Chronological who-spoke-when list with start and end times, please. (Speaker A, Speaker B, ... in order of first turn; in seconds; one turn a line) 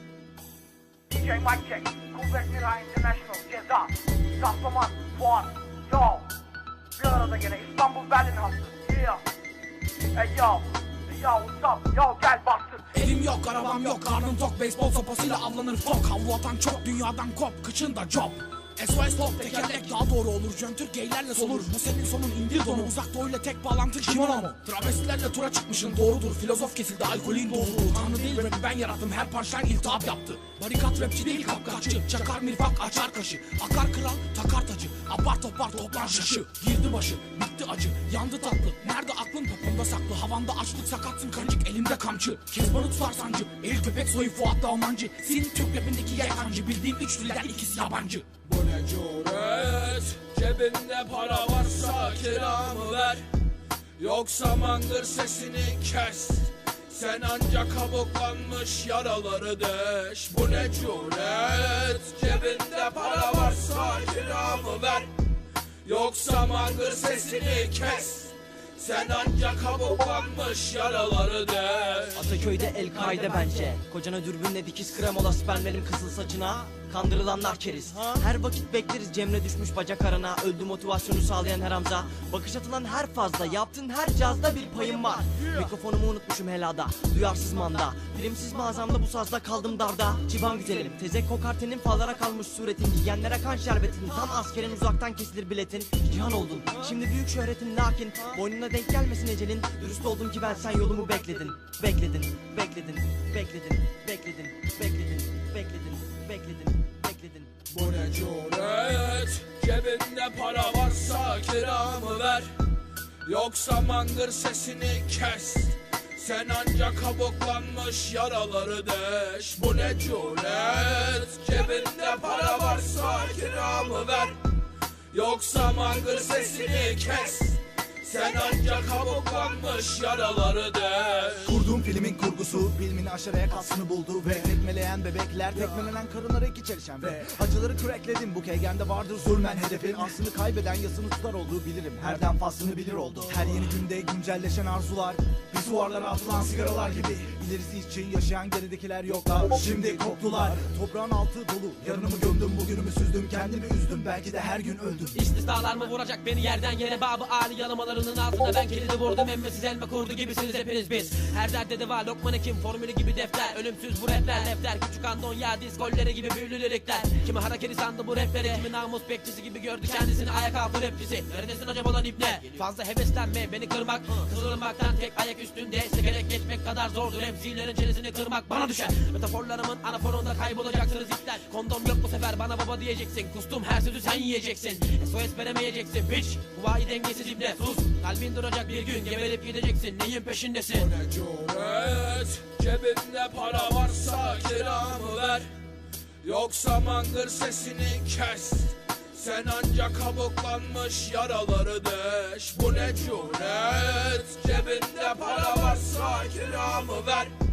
Speaker A: 1.1-6.3
Speaker A: 7.0-9.2
Speaker A: 10.1-12.9
Speaker B: 12.9-48.2
Speaker C: 48.4-53.2
Speaker C: 54.0-65.1
Speaker C: 65.8-72.3
Speaker D: 72.2-107.5
Speaker E: 72.8-73.6
Speaker C: 107.7-112.5
Speaker C: 113.2-124.4
Speaker C: 125.1-131.6
Speaker F: 131.4-155.2
Speaker E: 155.1-190.9
Speaker C: 190.7-195.5
Speaker C: 196.2-207.3